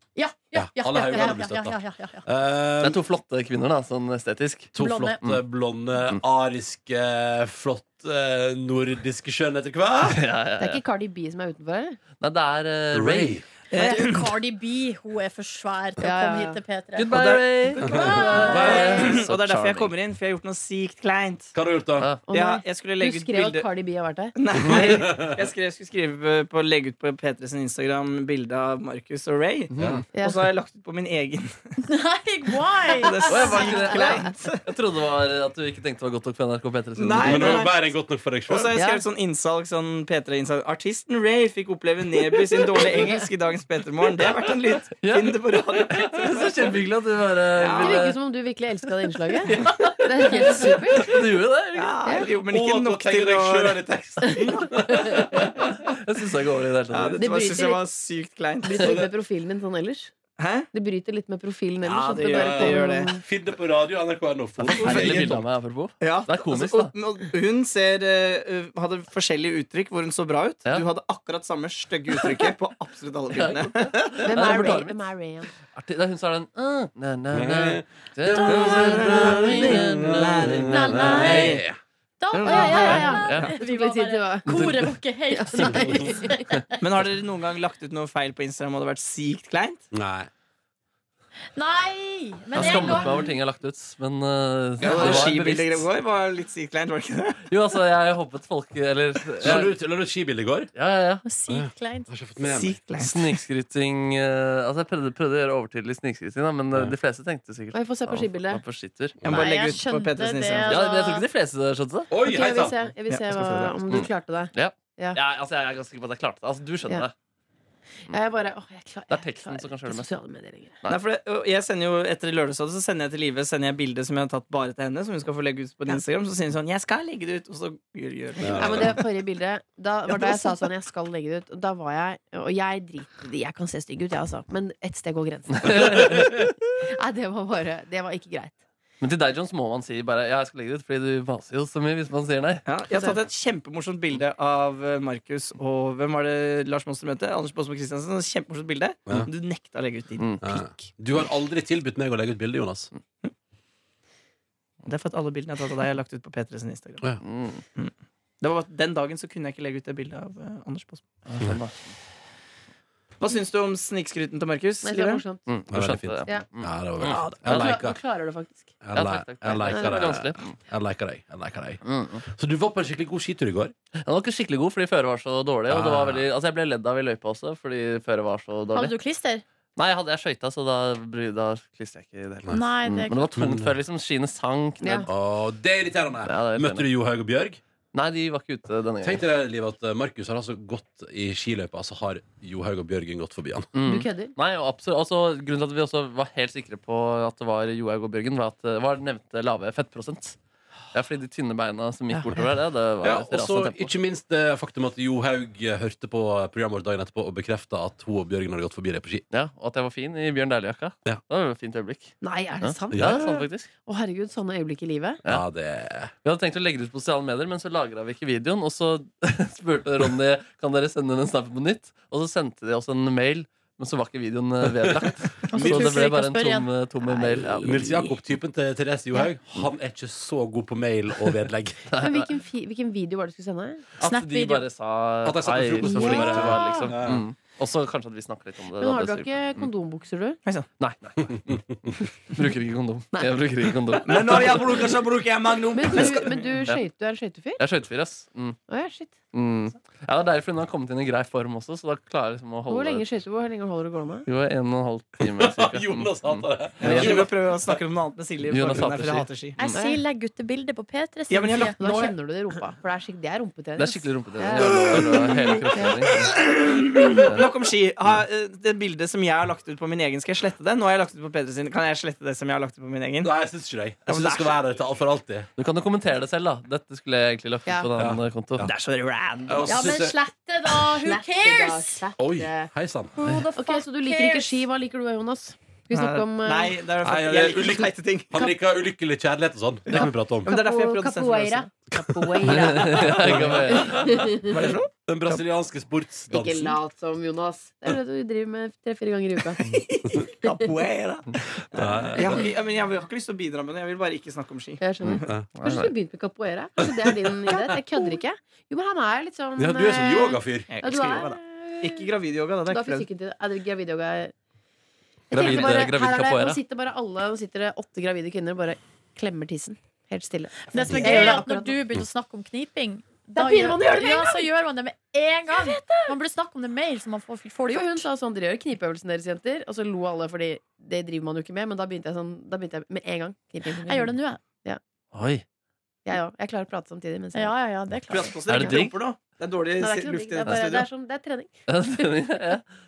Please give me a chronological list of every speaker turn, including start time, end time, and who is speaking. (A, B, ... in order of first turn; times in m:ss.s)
0:00.2-0:02.2 A
0:00.5-0:03.0 B
0:01.1-0:01.4 C
0:02.8-0:04.7 D
0:04.7-0:10.2 B
0:04.8-0:05.2 A
0:10.1-0:10.8 D
0:10.6-0:12.0 C
0:12.2-0:13.4 D
0:12.9-0:13.4 B
0:13.7-0:14.3 E
0:13.7-0:17.1 A
0:16.0-0:16.6 C
0:17.0-0:19.9 D
0:17.1-0:21.5 E
0:17.8-0:18.8 A
0:17.8-0:18.9 B
0:18.0-0:19.1 C
0:21.5-0:22.1 B
0:22.3-0:24.3 C
0:22.3-0:23.7 E
0:24.4-0:31.8 E
0:24.6-0:25.4 B
0:29.7-0:30.0 D
0:30.1-0:30.4 C
0:31.8-0:33.8 A
0:32.9-0:34.6 E
0:33.3-0:37.6 D
0:33.6-0:34.2 C
0:37.0-0:37.8 E
0:37.2-0:38.8 B
0:38.5-0:46.7 E
0:38.8-0:39.0 C
0:45.0-0:48.2 D
0:47.5-0:48.1 E
0:47.8-0:51.2 C
0:49.4-0:52.0 D
0:51.7-0:53.8 E
0:52.0-0:52.3 C
0:52.4-0:55.6 B
0:54.4-0:54.7 E
0:55.0-0:57.3 D
0:56.9-0:59.0 E
0:57.2-0:57.8 C
0:58.6-1:00.1 C
0:58.8-0:59.1 B
1:00.4-1:00.7 E
1:00.7-1:03.2 C
1:01.8-1:05.4 B
1:02.0-1:03.1 E
1:04.7-1:05.4 E
1:04.8-1:06.9 D
1:06.0-1:14.5 E
1:12.1-1:12.4 D
1:13.3-1:15.1 D
1:14.2-1:15.5 C
1:15.7-1:21.1 D
1:17.3-1:21.8 B
1:18.4-1:21.6 E
1:20.7-1:21.6 A
1:22.2-1:26.8 A
1:22.3-1:23.4 E
1:22.4-1:24.5 C
1:22.8-1:23.5 D
1:24.4-1:24.9 D
1:25.3-1:26.6 C
1:25.7-1:26.1 B
1:26.8-1:29.9 E
1:29.9-1:30.3 B
1:31.5-1:33.3 A
1:32.5-1:35.9 D
1:34.8-1:37.4 E
1:34.8-1:35.3 B
1:37.5-1:39.7 D
1:39.4-1:40.7 B
1:40.7-1:41.2 D
1:41.2-1:42.1 A
1:41.5-1:42.8 B
1:42.4-1:43.4 E
1:43.0-1:49.2 D
1:47.7-1:48.6 C
1:49.2-1:49.5 B
1:49.2-1:50.8 E
1:49.3-1:51.2 A
1:50.6-1:52.1 D
1:52.1-1:52.9 B
1:52.2-1:55.2 C
1:53.1-1:53.7 E
1:53.9-1:57.1 D
1:58.1-2:00.8 C
1:59.1-2:00.1 D
2:00.9-2:08.9 E
2:08.4-2:09.0 B
2:08.4-2:18.6 C
2:10.1-2:10.6 E
2:15.6-2:16.3 D
2:15.8-2:16.4 B
2:19.0-2:22.6 D
2:22.6-2:30.6 E
2:22.9-2:23.2 C
2:30.2-2:30.4 D
2:30.4-2:32.9 B
2:34.8-2:37.0 E
2:37.2-2:37.6 D
2:37.8-2:41.0 E
2:41.2-2:41.9 D
2:43.2-2:45.2 E
2:44.8-2:45.5 C
2:45.5-2:47.8 D
2:45.7-2:48.0 B
2:47.0-2:48.8 C
2:48.8-2:53.7 B
2:48.9-2:50.6 D
2:49.6-2:50.1 C
2:51.8-2:52.2 D
2:54.0-2:58.9 D
2:55.7-2:56.3 B
2:58.7-2:59.4 A
2:59.8-3:05.1 D
3:02.5-3:03.2 A
3:03.3-3:03.7 B
3:04.8-3:05.1 C
3:05.1-3:07.6 B
3:06.2-3:06.9 D
3:07.9-3:09.2 D
3:09.0-3:13.7 B
3:13.7-3:20.4 D
3:13.8-3:14.3 C
3:20.9-3:23.9 D
3:22.1-3:22.5 C
3:23.0-3:29.2 B
3:29.3-3:33.7 D
3:32.2-3:35.2 C
3:32.9-3:33.2 B
3:35.2-3:36.1 B
3:36.2-3:48.1 D
3:44.8-3:46.0 B
3:45.5-3:46.7 A
3:47.0-3:48.1 C
3:47.6-3:51.9 B
3:51.9-3:52.3 D
3:52.0-3:53.8 C
3:54.0-3:59.7 D
3:54.0-3:54.6 A
3:55.2-3:57.2 B
3:55.8-3:56.9 C
3:58.8-4:00.4 C
4:00.8-4:01.6 D
4:01.3-4:01.8 B
4:02.3-4:04.8 D
4:04.0-4:06.6 E
4:05.7-4:07.6 C
4:07.6-4:08.6 D
4:08.7-4:09.1 C
4:09.3-4:13.0 D
4:12.7-4:14.3 C
4:14.2-4:17.2 D
4:15.2-4:17.8 B
4:16.8-4:19.7 E
4:18.5-4:19.3 D
4:19.6-4:21.8 A
4:19.7-4:20.0 C
4:21.3-4:22.1 E
4:21.8-4:26.0 C
4:23.8-4:26.4 D
4:24.6-4:25.0 E
4:26.2-4:33.3 E
4:27.2-4:27.5 D
4:33.2-4:35.5 B
4:34.1-4:34.6 E
4:35.6-4:38.7 D
4:38.0-4:38.7 B
4:38.6-4:39.9 E
4:39.5-4:40.2 B
4:39.6-4:42.0 A
4:40.9-4:42.7 C
4:42.2-4:43.2 B
4:43.2-4:44.6 A
4:43.2-4:46.8 C
4:45.9-4:48.5 E
4:47.0-4:50.5 B
4:49.9-4:51.7 E
4:49.9-4:54.7 C
4:52.4-4:54.0 D
4:52.8-4:54.2 B
4:53.2-4:53.5 E
4:54.3-4:55.4 E
4:55.0-4:56.8 B
4:56.3-4:59.6 C
4:59.5-5:04.8 E
5:01.7-5:02.4 B
5:04.8-5:12.1 C
5:05.0-5:05.9 D
5:06.8-5:07.1 B
5:09.6-5:10.7 B
5:10.7-5:13.1 E
5:12.7-5:14.3 C
5:15.3-5:21.8 C
5:15.3-5:16.6 D
5:20.7-5:28.1 A
5:23.4-5:24.5 C
5:25.5-5:26.1 C
5:27.7-5:34.8 C
5:33.8-5:34.4 A
5:35.1-5:35.4 D
5:36.0-5:37.5 C
5:37.3-5:38.4 A
5:38.1-5:40.9 E
5:38.5-5:39.0 D
5:39.8-5:41.5 C
5:41.7-5:42.6 D